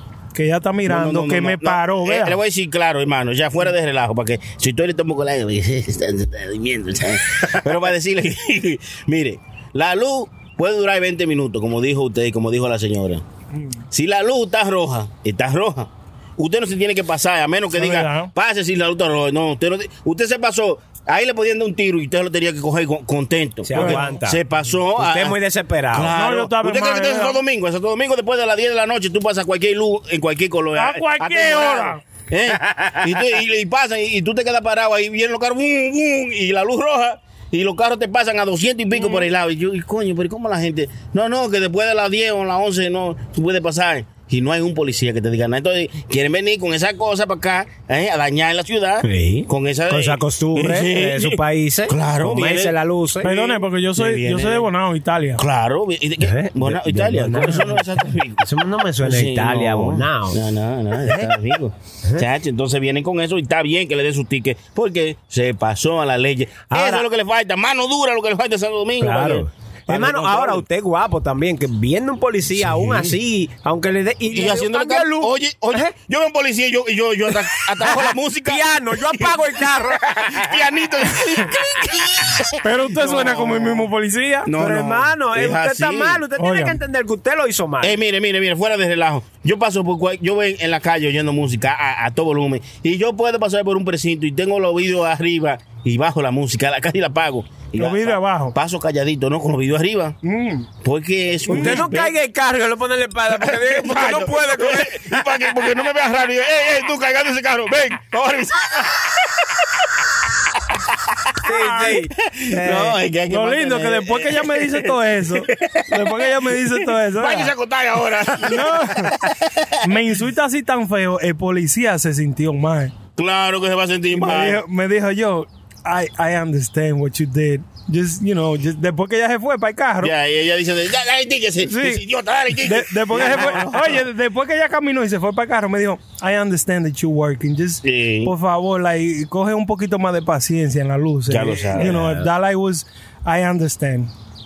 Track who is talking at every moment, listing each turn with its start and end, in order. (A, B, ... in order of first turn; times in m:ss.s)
0:00.3-0:02.4 A
0:00.9-0:13.2 B
0:13.9-0:25.4 B
0:17.7-0:18.3 A
0:23.7-0:24.4 C
0:23.7-0:24.0 A
0:25.0-0:26.1 C
0:25.9-0:54.7 B
0:26.1-0:27.4 A
0:30.8-0:32.0 A
0:39.0-0:39.3 A
0:49.0-0:53.3 C
0:53.2-0:55.4 A
0:55.4-0:58.5 B
0:56.2-1:00.4 C
0:59.0-1:10.6 B
1:01.0-1:01.4 C
1:06.7-1:07.1 C
1:09.0-1:15.9 C
1:12.6-1:13.1 B
1:14.3-1:23.9 B
1:17.8-1:20.6 C
1:22.6-1:24.5 A
1:24.4-1:26.2 B
1:24.5-1:28.0 C
1:26.4-1:26.8 A
1:27.8-1:40.2 B
1:37.8-1:38.6 A
1:40.2-1:40.7 A
1:40.8-1:42.1 B
1:41.5-1:45.1 C
1:41.5-1:42.0 A
1:43.3-1:49.5 B
1:51.4-1:53.0 C
1:52.2-1:59.7 B
1:53.3-1:57.5 A
1:58.4-1:59.2 A
1:59.8-2:03.0 A
2:03.2-2:04.6 B
2:04.1-2:10.1 A
2:10.0-2:14.0 B
2:11.6-2:12.0 A
2:12.6-2:24.1 A
2:17.8-2:18.3 B
2:21.3-2:22.0 B
2:21.7-2:22.3 C